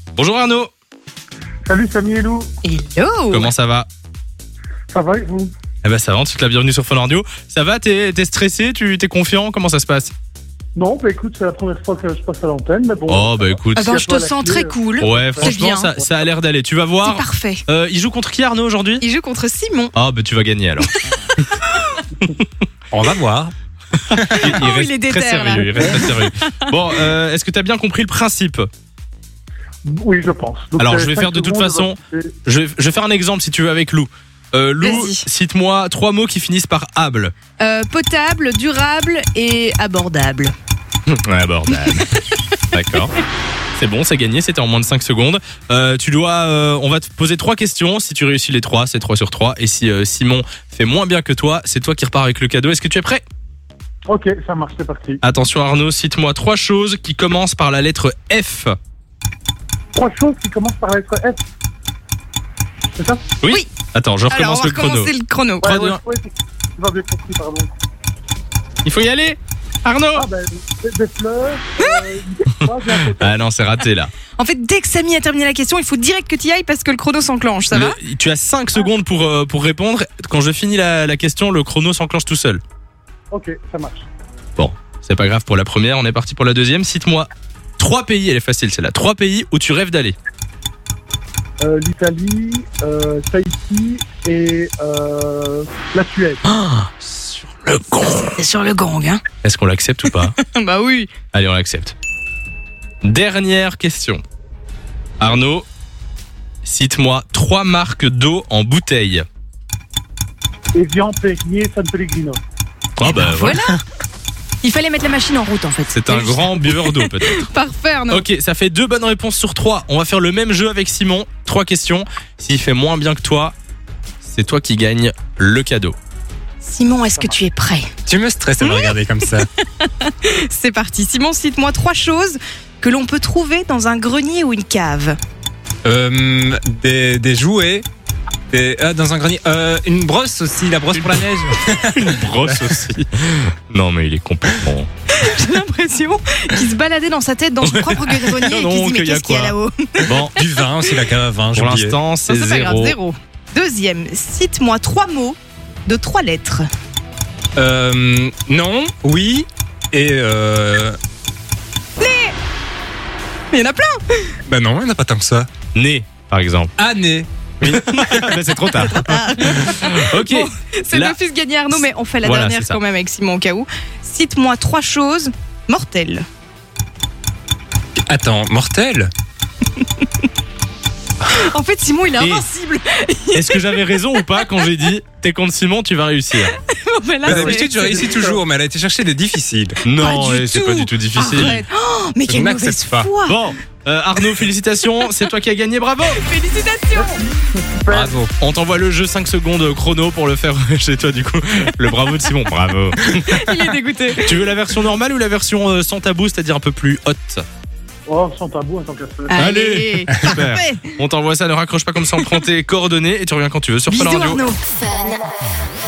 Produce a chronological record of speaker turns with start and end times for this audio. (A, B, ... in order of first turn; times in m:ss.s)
0:00.2-0:00.7 A
0:01.7-0:02.5 B
0:02.6-0:03.5 C
0:03.3-0:03.9 A
0:04.9-0:05.5 B
0:05.8-0:10.1 A
0:10.8-0:16.0 B
0:13.1-0:13.9 A
0:13.8-0:15.9 C
0:15.0-0:19.0 A
0:17.0-0:17.6 C
0:19.0-0:19.9 C
0:19.9-0:20.9 A
0:21.1-0:22.0 C
0:22.9-0:23.5 D
0:24.1-0:24.5 D
0:24.3-0:26.5 C
0:24.4-0:28.7 A
0:29.8-0:32.3 B
0:30.8-0:37.3 A
0:34.8-0:35.3 C
0:37.6-0:40.5 C
0:41.1-0:43.1 A
0:43.8-0:53.2 A
0:54.1-0:55.2 B
0:55.2-0:58.8 A
1:00.0-1:01.4 B
1:03.0-1:03.2 B
1:03.4-1:05.1 A
1:04.3-1:05.8 C
1:05.6-1:07.7 B
1:05.6-1:06.0 A
1:08.8-1:10.3 A
1:10.2-1:13.4 B
1:11.8-1:12.1 C
1:13.1-1:14.1 A
1:14.4-1:18.0 C
1:17.7-1:22.6 A
1:23.3-1:24.1 B
1:24.6-1:30.2 A
1:31.6-1:36.4 B
1:36.4-1:38.4 A
1:38.2-1:39.2 C
1:39.4-1:40.4 A
1:40.1-1:41.1 C
1:41.3-1:42.0 A
1:43.0-1:44.2 A
1:45.2-1:45.7 A
1:46.6-1:49.2 A
1:50.7-1:52.4 B
1:53.0-1:53.6 A
1:53.1-1:53.8 D
1:53.2-1:53.8 C
1:54.6-1:58.2 C
1:55.9-1:57.5 A
1:58.1-2:03.6 A
2:04.2-2:06.0 A
2:06.6-2:07.9 C
2:08.1-2:09.5 D
2:08.6-2:15.2 C
2:15.8-2:17.9 D
2:18.5-2:22.8 D
2:21.0-2:21.2 A
2:21.9-2:24.9 A
2:25.1-2:31.0 C
2:27.6-2:30.4 A
2:30.4-2:32.0 D
2:31.5-2:33.0 A
2:32.3-2:36.7 C
2:37.6-2:41.0 D
2:42.0-2:42.4 C
2:43.5-2:44.4 C
2:44.5-2:45.5 D
2:45.8-2:46.7 A
2:46.8-2:48.4 D
2:47.6-2:51.2 A
2:48.9-2:56.2 C
2:51.8-2:52.8 A
2:58.1-2:59.1 D
3:01.3-3:04.7 C
3:02.2-3:02.5 A
3:03.3-3:06.6 A
3:06.7-3:08.1 C
3:07.2-3:09.8 D
3:07.3-3:08.4 B
3:09.8-3:11.6 A
3:10.0-3:13.4 C
3:12.3-3:13.1 D
3:13.3-3:16.2 A
3:16.2-3:17.2 C
3:16.9-3:18.2 B
3:17.9-3:18.3 D
3:18.4-3:23.2 A
3:23.1-3:24.5 C
3:24.1-3:27.4 A
3:28.1-3:29.6 B
3:29.3-3:30.9 C
3:29.4-3:34.4 A
3:32.1-3:32.4 C
3:33.9-3:34.7 C